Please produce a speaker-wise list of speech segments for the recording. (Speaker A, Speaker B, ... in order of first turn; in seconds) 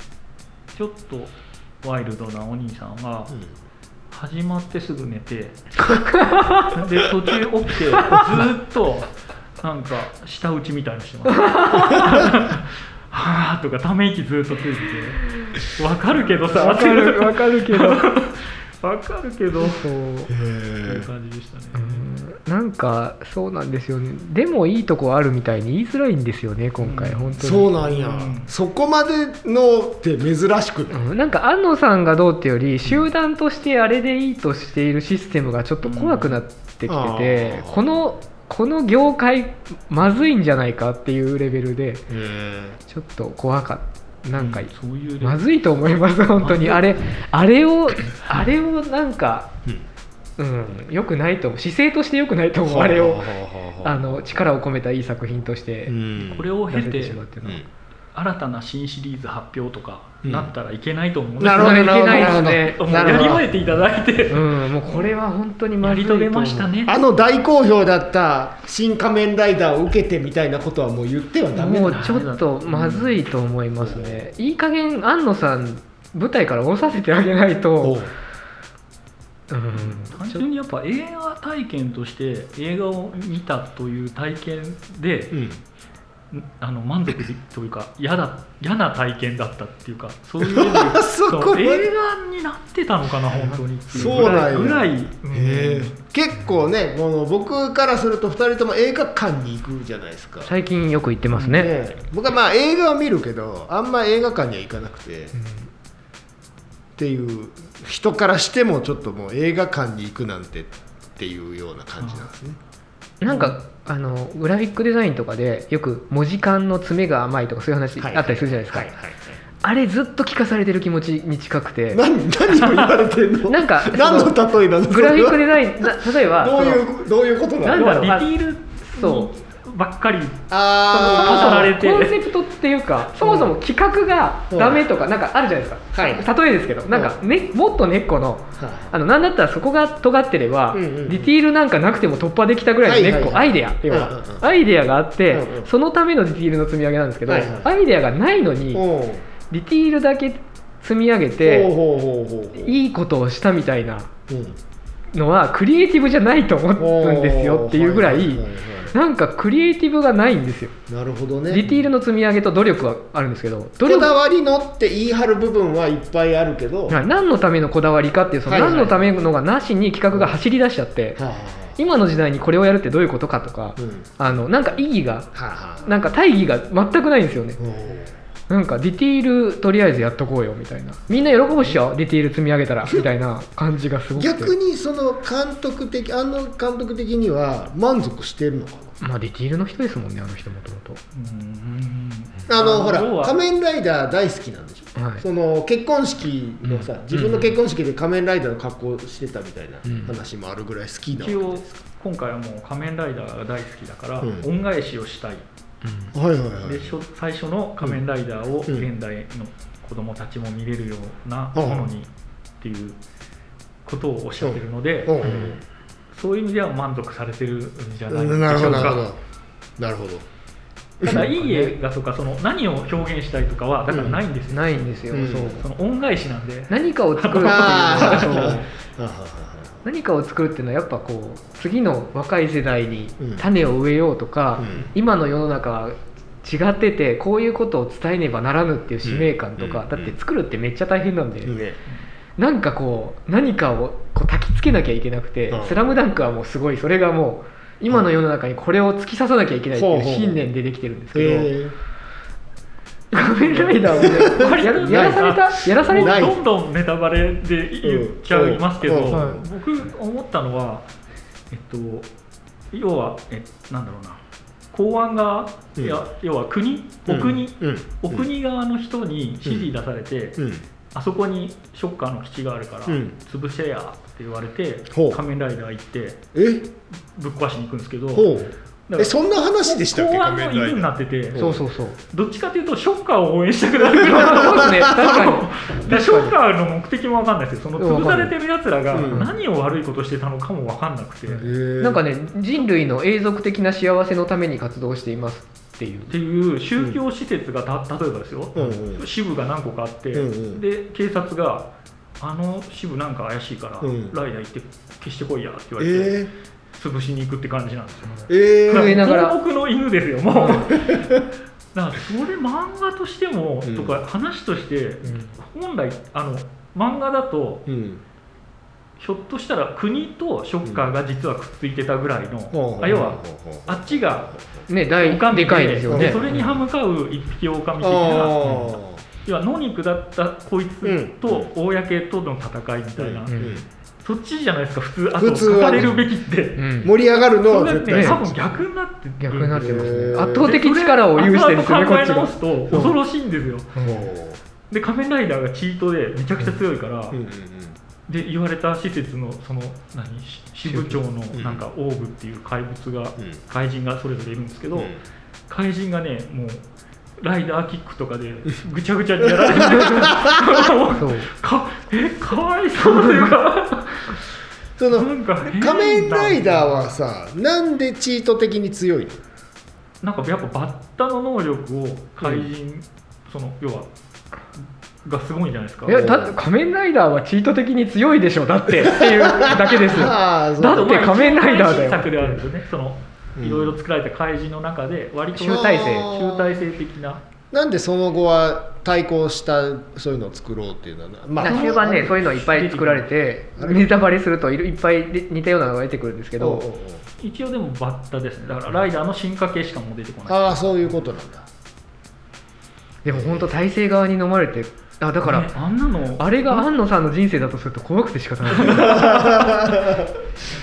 Speaker A: 0.7-3.3, 4.1-5.6, 6.6-19.8, 20.8-22.0, 26.8-28.5, 35.8-36.4, 44.4-45.5, 46.4-46.8, 56.1-57.2, 58.1-65.0, 65.8-67.0, 71.9-73.1, 79.8-85.4, 86.3-96.0, 122.6-123.0, 127.7-132.1, 191.1-193.3, 201.1-205.4, 206.6-212.1, 212.6-213.0, 213.8-215.4, 216.1-219.1, 221.0-224.8, 225.6-228.6, 253.7-260.9, 261.5-262.1, 262.7-264.2, 264.7-276.2, 277.1-278.3, 278.9-281.4, 282.1-291.5, 296.1-301.7, 302.2-311.2, 311.7-317.7, 319.0-324.3, 324.9-336.8, 337.4-339.4, 340.4-343.8, 344.7-347.2, 348.1-354.9, 355.5-356.6, 357.2-364.3, 364.8-366.9, 370.0-373.9, 374.6-376.1, 380.6-387.2, 391.4-393.1, 397.2-400.8, 405.2-406.6, 408.6-409.2
Speaker B: 6.1-6.7, 11.3-12.2, 16.5-18.0, 19.6-20.3, 21.7-27.7, 30.9-42.1, 42.9-49.5, 50.4-56.0, 56.7-57.6, 61.4-63.4, 64.3-66.7, 71.5-78.0, 79.5-80.4, 100.4-101.7, 105.3-105.7, 113.2-118.9, 119.6-122.0, 123.5-126.8, 127.6-128.3, 128.9-129.3, 130.9-148.8, 149.5-151.7, 152.6-154.1, 155.1-160.8, 161.5-164.1, 166.9-171.2, 171.8-175.3, 175.8-177.6, 178.5-184.5, 189.0-191.0, 194.9-195.2, 196.6-197.5, 199.8-200.1, 205.8-206.1, 215.2-215.6, 221.0-221.8, 224.5-225.6, 226.7-228.7, 229.8-241.5, 242.4-251.5, 253.1-256.3, 259.1-259.4, 281.4-282.0, 284.0-286.4, 287.8-288.3, 291.8-296.1, 308.7-309.4, 324.7-326.4, 333.3-333.6, 336.6-336.9, 337.9-338.2, 339.2-342.9, 343.8-344.0, 350.6-351.0, 360.9-361.3, 362.8-363.3, 375.8-382.4, 385.3-386.1, 391.4-396.6, 403.0-405.5, 406.2-409.4
Speaker C: 20.3-21.1, 27.4-31.1, 36.9-38.0, 42.1-42.8, 52.6-54.4, 55.9-56.5, 60.2-60.5, 61.4-63.6, 66.8-72.3, 73.8-74.2, 77.8-78.1, 85.3-85.6, 90.4-91.9, 93.4-100.5, 101.4-105.3, 107.0-112.6, 118.0-119.4, 121.9-128.2, 130.5-131.7, 133.2-133.5, 134.5-134.8, 135.9-136.3, 138.6-138.9, 140.7-141.3, 142.8-144.5, 145.3-145.7, 147.3-147.7, 148.7-149.2, 151.4-152.8, 154.3-154.6, 156.8-158.9, 160.9-161.7, 163.8-167.0, 168.5-169.2, 171.2-171.8, 173.8-174.2, 175.3-175.9, 177.6-178.2, 184.2-189.0, 192.5-201.7, 204.2-204.5, 206.1-206.9, 211.5-211.9, 214.4-215.6, 218.1-219.2, 219.8-220.2, 221.0-221.3, 223.9-224.2, 225.1-225.6, 227.4-229.8, 233.2-233.4, 234.6-234.9, 239.0-240.2, 241.4-241.8, 245.5-245.8, 249.7-250.5, 251.1-251.7, 253.5-256.4, 257.8-259.4, 265.8-266.0, 267.1-268.3, 269.4-269.7, 270.4-270.6, 272.9-273.1, 274.9-275.2, 276.3-276.7, 278.1-281.6, 284.2-284.5, 288.9-289.4, 291.3-292.0, 298.5-299.0, 300.1-300.6, 303.8-304.2, 305.8-306.3, 308.3-309.0, 310.4-311.2, 313.6-314.0, 317.7-318.0, 322.5-324.6, 325.9-326.6, 327.8-329.0, 330.8-331.5, 333.0-333.6, 335.2-336.1, 336.8-338.6, 339.3-340.5, 343.8-344.4, 347.1-347.8, 351.3-351.6, 354.7-355.0, 359.2-360.7, 364.8-369.2, 372.2-372.5, 375.9-376.4, 378.8-380.9, 383.4-383.8, 385.4-386.6, 387.5-392.2, 393.6-393.9, 396.4-397.1, 400.3-401.5, 403.1-403.6, 408.6-410.2